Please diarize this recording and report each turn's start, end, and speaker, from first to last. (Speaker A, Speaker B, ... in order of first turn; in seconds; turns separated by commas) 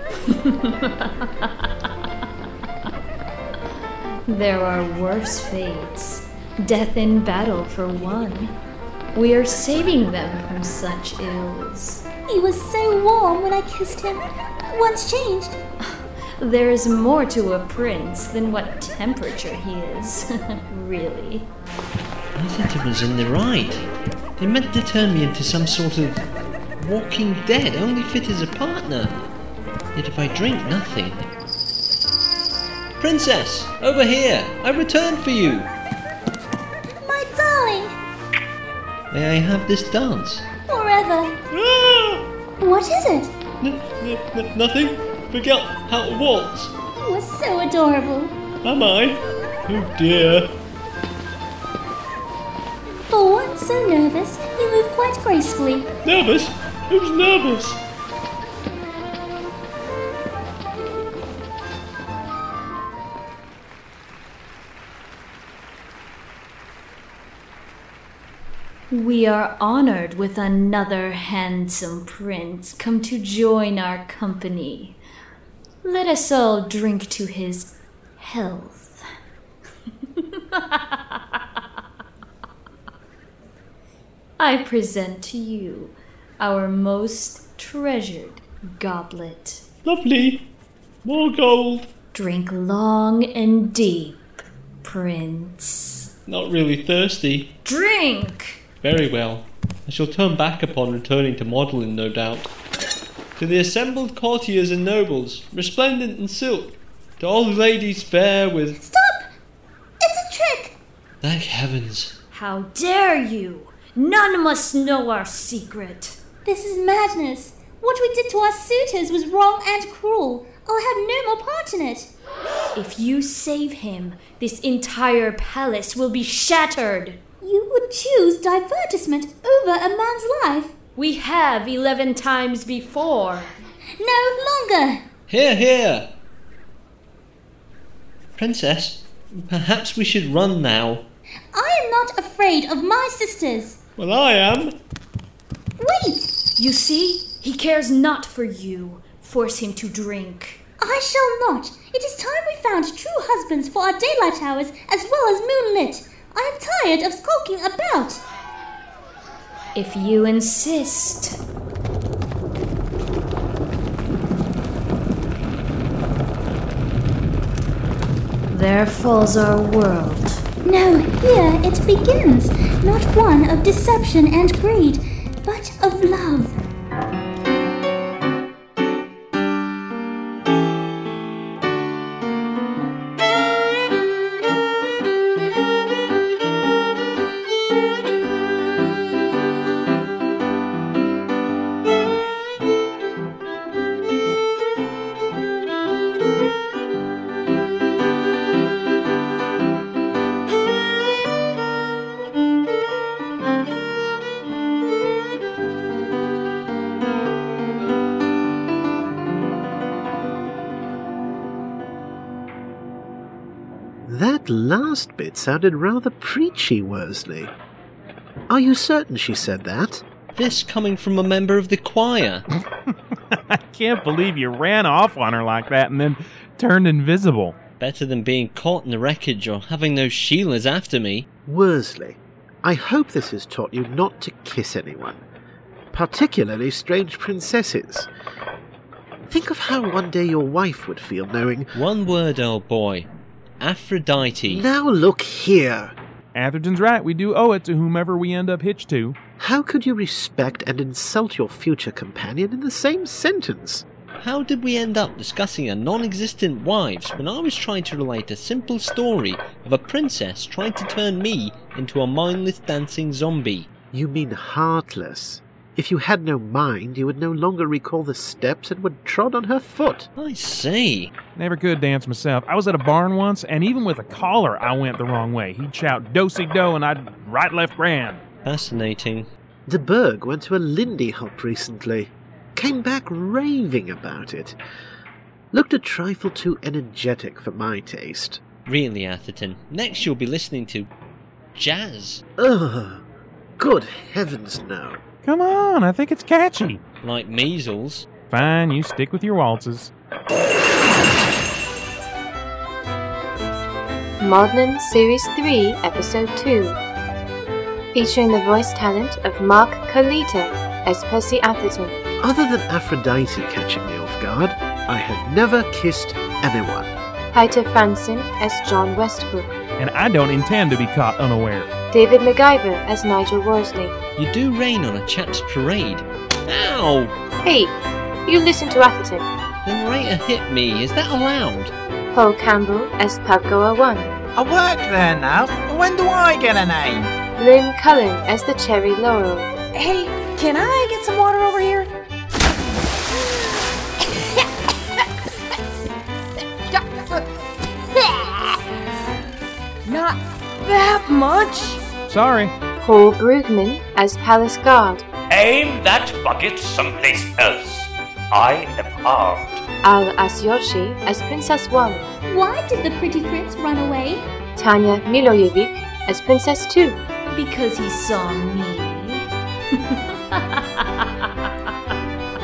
Speaker A: 0.3-1.3, Speaker A: 4.3-8.6, Speaker A: 9.1-12.1, Speaker B: 12.3-15.6, Speaker A: 16.4-21.5, Speaker C: 22.4-23.9, Speaker C: 24.4-26.2, Speaker C: 26.8-29.1, Speaker C: 30.0-31.2, Speaker C: 33.0-35.7, Speaker B: 37.0-38.0, Speaker C: 39.1-40.5, Speaker B: 40.7-41.4, Speaker C: 41.5-42.2, Speaker B: 42.6-43.4, Speaker C: 43.6-46.7, Speaker B: 47.0-48.5, Speaker C: 48.6-50.5, Speaker B: 53.1-56.0, Speaker C: 56.0-57.8, Speaker A: 68.9-75.0, Speaker A: 75.8-79.0, Speaker A: 80.2-81.2, Speaker A: 84.4-89.7, Speaker C: 89.8-90.4, Speaker C: 91.0-91.9, Speaker A: 92.1-96.1, Speaker C: 96.3-97.5, Speaker A: 97.7-98.6, Speaker C: 98.8-102.5, Speaker C: 103.4-108.8, Speaker B: 108.8-109.3, Speaker B: 110.0-110.8, Speaker C: 111.2-112.1, Speaker A: 112.3-116.2, Speaker B: 116.5-122.1, Speaker A: 122.8-127.2, Speaker B: 127.4-130.7, Speaker A: 131.0-133.5, Speaker B: 134.0-135.0, Speaker C: 135.3-136.1, Speaker C: 138.4-141.0, Speaker B: 141.5-143.8, Speaker C: 144.0-144.8, Speaker B: 145.8-146.3, Speaker A: 146.6-150.6, Speaker B: 150.8-158.2, Speaker A: 159.8-161.4, Speaker A: 168.5-170.4, Speaker B: 170.6-176.6, Speaker D: 214.1-217.5, Speaker D: 218.5-220.1, Speaker C: 220.4-222.4, Speaker E: 223.3-227.6, Speaker C: 227.8-231.3, Speaker D: 231.5-235.2, Speaker D: 235.9-238.1, Speaker D: 239.3-241.7, Speaker C: 241.7-243.1, Speaker C: 243.6-244.6, Speaker D: 244.5-245.9, Speaker E: 246.3-249.2, Speaker D: 249.4-253.8, Speaker C: 254.2-263.7, Speaker D: 263.9-270.1, Speaker C: 270.2-271.1, Speaker E: 271.2-278.2, Speaker C: 278.4-279.3, Speaker D: 279.7-284.6, Speaker D: 285.5-288.4, Speaker C: 288.7-290.9, Speaker C: 291.6-292.2, Speaker D: 292.4-293.0, Speaker D: 293.6-295.0, Speaker E: 295.2-296.8, Speaker C: 297.0-298.1, Speaker E: 298.2-299.9, Speaker F: 304.2-306.8, Speaker F: 307.9-312.0, Speaker D: 312.2-316.9, Speaker F: 317.3-319.5, Speaker E: 319.8-321.7, Speaker F: 321.9-323.9, Speaker C: 324.2-327.1, Speaker F: 327.4-327.7, Speaker F: 328.3-329.3, Speaker C: 329.7-331.7, Speaker F: 332.1-334.1, Speaker G: 334.4-337.1, Speaker F: 337.4-339.5, Speaker H: 339.7-341.9, Speaker H: 343.1-343.6, Speaker H: 346.7-347.3, Speaker H: 347.9-348.6, Speaker H: 349.9-351.8, Speaker E: 352.1-352.5, Speaker F: 352.8-355.0, Speaker I: 355.3-359.6, Speaker F: 359.8-362.1, Speaker B: 362.3-364.3, Speaker F: 364.6-367.0, Speaker A: 367.3-369.3, Speaker A: 369.9-371.0